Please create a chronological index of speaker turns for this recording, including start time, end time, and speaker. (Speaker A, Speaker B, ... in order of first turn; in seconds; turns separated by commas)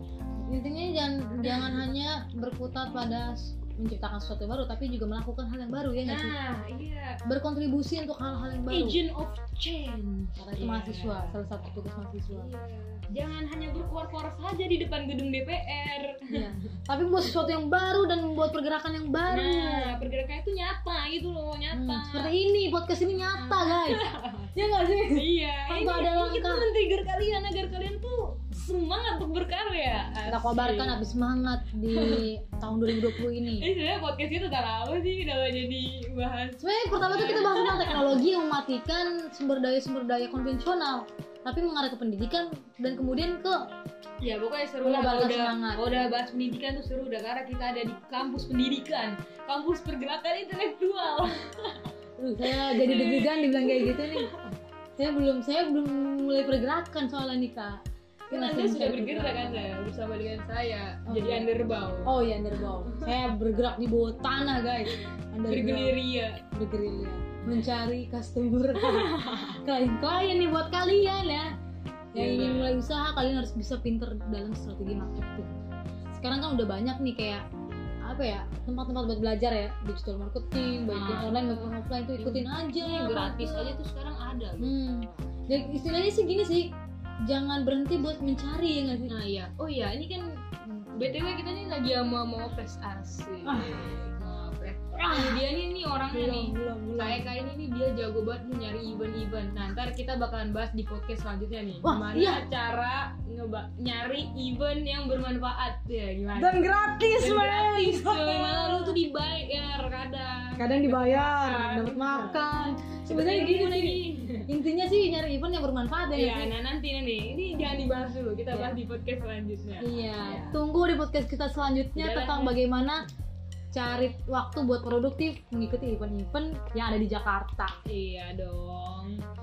Speaker A: 0.4-6.3, Speaker B: 1.4-1.8, Speaker B: 6.0-7.2, Speaker A: 7.2-9.0, Speaker B: 8.7-11.3, Speaker A: 10.4-12.5, Speaker B: 12.3-16.6, Speaker A: 16.3-19.9, Speaker B: 19.3-22.3, Speaker A: 21.7-26.7, Speaker B: 23.3-24.5, Speaker B: 25.1-30.9, Speaker A: 30.3-33.7, Speaker B: 31.9-32.3, Speaker B: 32.9-38.1, Speaker A: 36.6-43.6, Speaker B: 44.2-51.8, Speaker A: 44.8-45.9, Speaker A: 52.2-54.3, Speaker B: 52.4-54.5, Speaker A: 55.0-59.8, Speaker B: 58.3-63.1, Speaker A: 61.1-61.5, Speaker A: 62.0-71.5, Speaker B: 65.5-66.4, Speaker B: 68.8-69.6, Speaker A: 72.1-75.6, Speaker B: 72.1-72.8, Speaker A: 76.1-77.4, Speaker A: 78.0-83.8, Speaker B: 80.9-84.7, Speaker A: 84.6-86.7, Speaker A: 87.2-89.1, Speaker B: 89.0-106.6, Speaker A: 93.4-93.9, Speaker A: 94.9-95.4, Speaker A: 96.1-97.3, Speaker A: 101.8-102.4, Speaker A: 106.3-109.0, Speaker B: 107.2-112.4, Speaker A: 110.6-116.5, Speaker B: 113.0-114.5, Speaker B: 116.1-120.6, Speaker A: 118.5-118.8, Speaker A: 119.8-123.0, Speaker B: 122.0-122.6, Speaker A: 123.7-127.7, Speaker B: 127.8-129.2